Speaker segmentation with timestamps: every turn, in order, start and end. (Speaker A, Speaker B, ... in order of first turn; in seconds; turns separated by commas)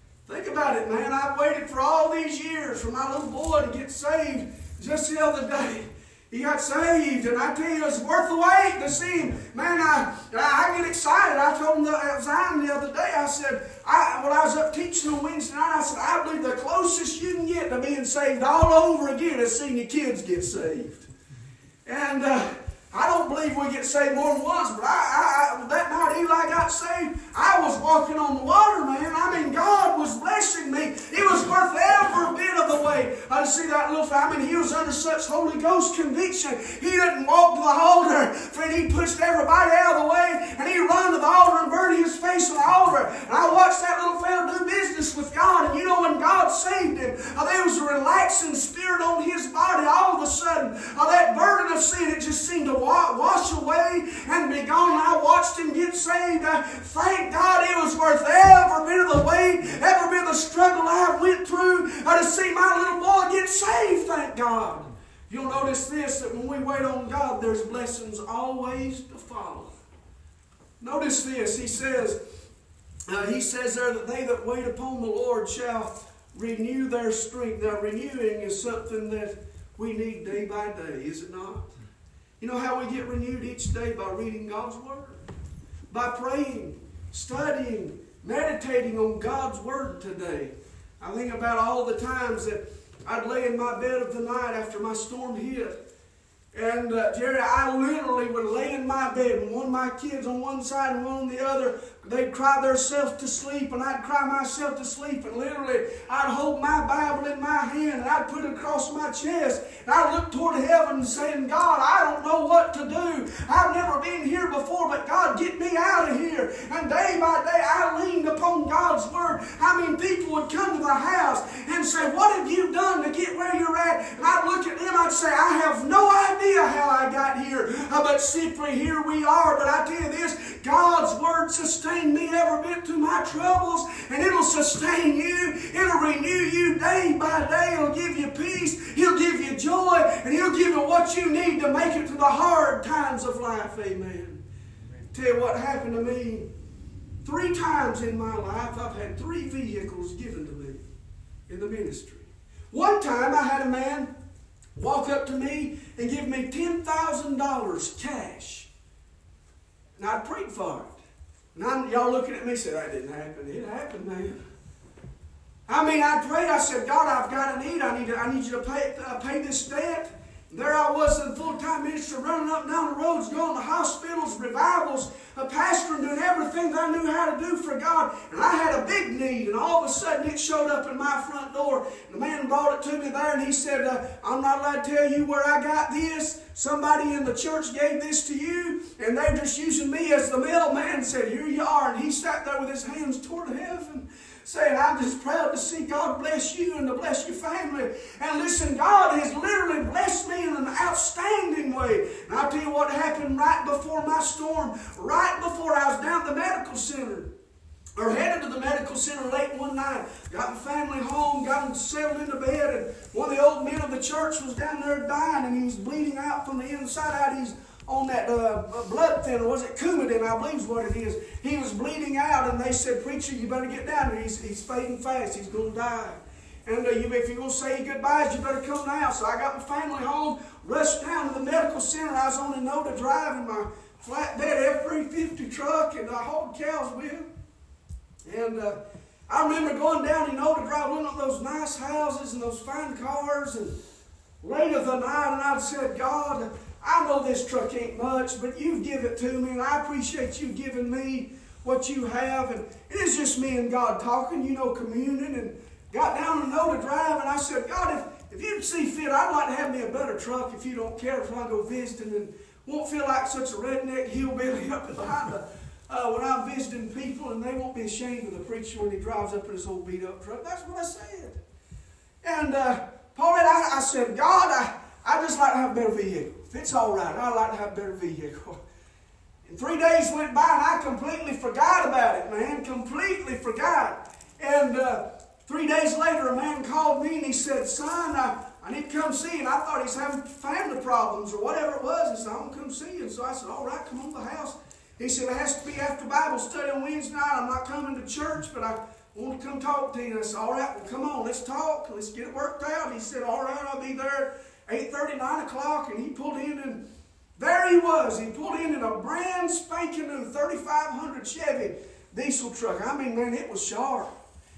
Speaker A: 0.3-21.1, Speaker A: 21.9-69.8, Speaker A: 70.8-72.2, Speaker A: 73.1-81.7, Speaker A: 82.4-85.2, Speaker A: 85.9-95.8, Speaker A: 96.5-144.4, Speaker A: 145.1-146.5, Speaker A: 147.2-150.8, Speaker A: 151.5-154.1, Speaker A: 154.8-158.7, Speaker A: 160.0-161.0, Speaker A: 161.6-164.4, Speaker A: 165.7-207.3, Speaker A: 208.0-237.3, Speaker A: 238.2-243.8, Speaker A: 244.4-271.4, Speaker A: 272.2-278.6, Speaker A: 279.4-306.8, Speaker A: 307.4-314.1